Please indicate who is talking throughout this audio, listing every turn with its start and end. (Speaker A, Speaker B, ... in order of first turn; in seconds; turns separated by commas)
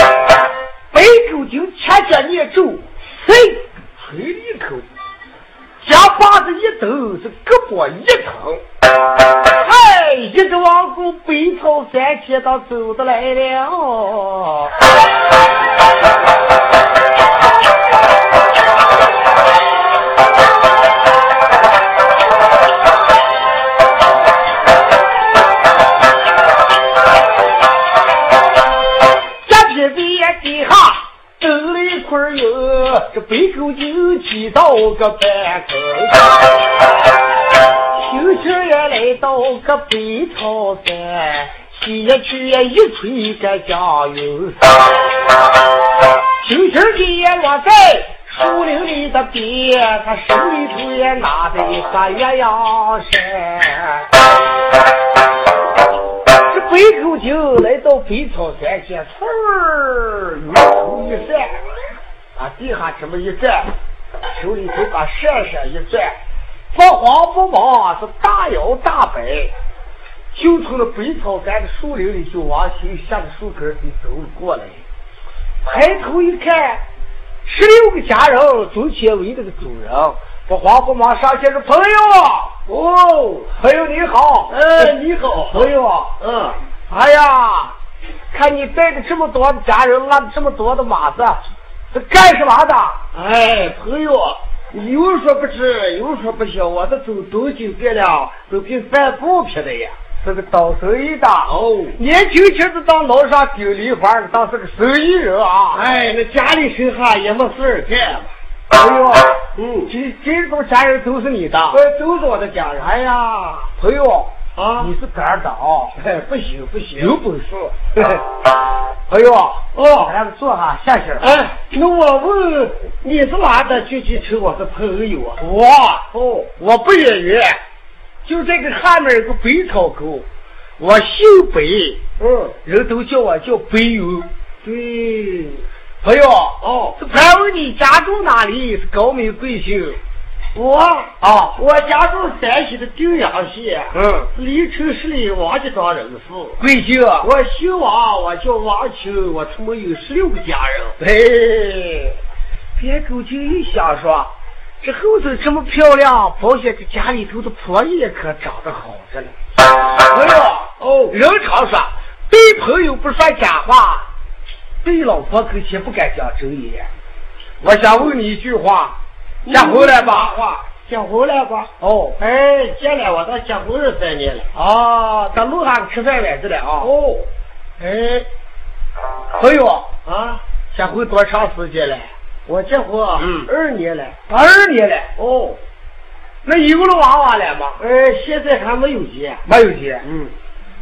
Speaker A: 0.9-4.8, Speaker A: 5.8-8.6, Speaker A: 9.6-14.7, Speaker A: 29.4-36.3, Speaker A: 37.9-44.7, Speaker A: 46.4-54.1, Speaker A: 56.5-61.6, Speaker A: 62.4-63.7, Speaker A: 64.3-66.1, Speaker A: 66.7-69.5, Speaker A: 70.3-74.8, Speaker A: 75.6-76.8, Speaker A: 77.5-82.6, Speaker B: 82.7-83.5, Speaker A: 83.5-84.9, Speaker B: 84.5-85.7, Speaker A: 85.5-86.2, Speaker B: 86.2-86.6, Speaker A: 86.9-87.7, Speaker A: 88.3-91.4, Speaker A: 91.9-93.0, Speaker B: 93.1-99.9, Speaker A: 100.2-105.9, Speaker B: 101.5-102.0, Speaker B: 105.7-108.3, Speaker A: 108.7-111.8, Speaker B: 109.5-109.9, Speaker B: 111.7-113.0, Speaker A: 113.0-116.0, Speaker B: 114.5-114.9, Speaker B: 116.0-117.2, Speaker A: 117.0-118.2, Speaker A: 119.1-121.3, Speaker B: 119.7-120.1, Speaker B: 121.2-125.4, Speaker A: 125.4-127.6, Speaker B: 126.1-126.5, Speaker A: 128.2-130.3, Speaker A: 130.8-132.0, Speaker B: 132.2-132.5, Speaker A: 132.6-134.3, Speaker B: 134.6-135.6, Speaker A: 136.0-140.0, Speaker B: 136.6-137.0, Speaker B: 140.5-146.6, Speaker A: 141.2-141.6, Speaker A: 143.9-144.3, Speaker A: 146.6-147.3, Speaker B: 147.2-150.9, Speaker A: 151.0-152.1, Speaker A: 152.8-159.3, Speaker A: 160.1-164.1, Speaker B: 160.8-161.2, Speaker A: 164.8-166.9, Speaker A: 167.6-169.0, Speaker B: 169.4-174.5, Speaker A: 169.5-170.3, Speaker A: 171.8-172.2, Speaker A: 174.5-176.9, Speaker B: 176.8-177.3, Speaker A: 177.8-178.2, Speaker A: 179.3-179.9, Speaker B: 180.1-180.4, Speaker A: 180.7-182.1, Speaker B: 182.4-184.2, Speaker A: 183.2-183.5, Speaker A: 184.3-185.1, Speaker B: 185.2-185.6, Speaker A: 186.4-187.8, Speaker B: 187.8-189.4, Speaker A: 189.4-190.1, Speaker B: 190.0-190.3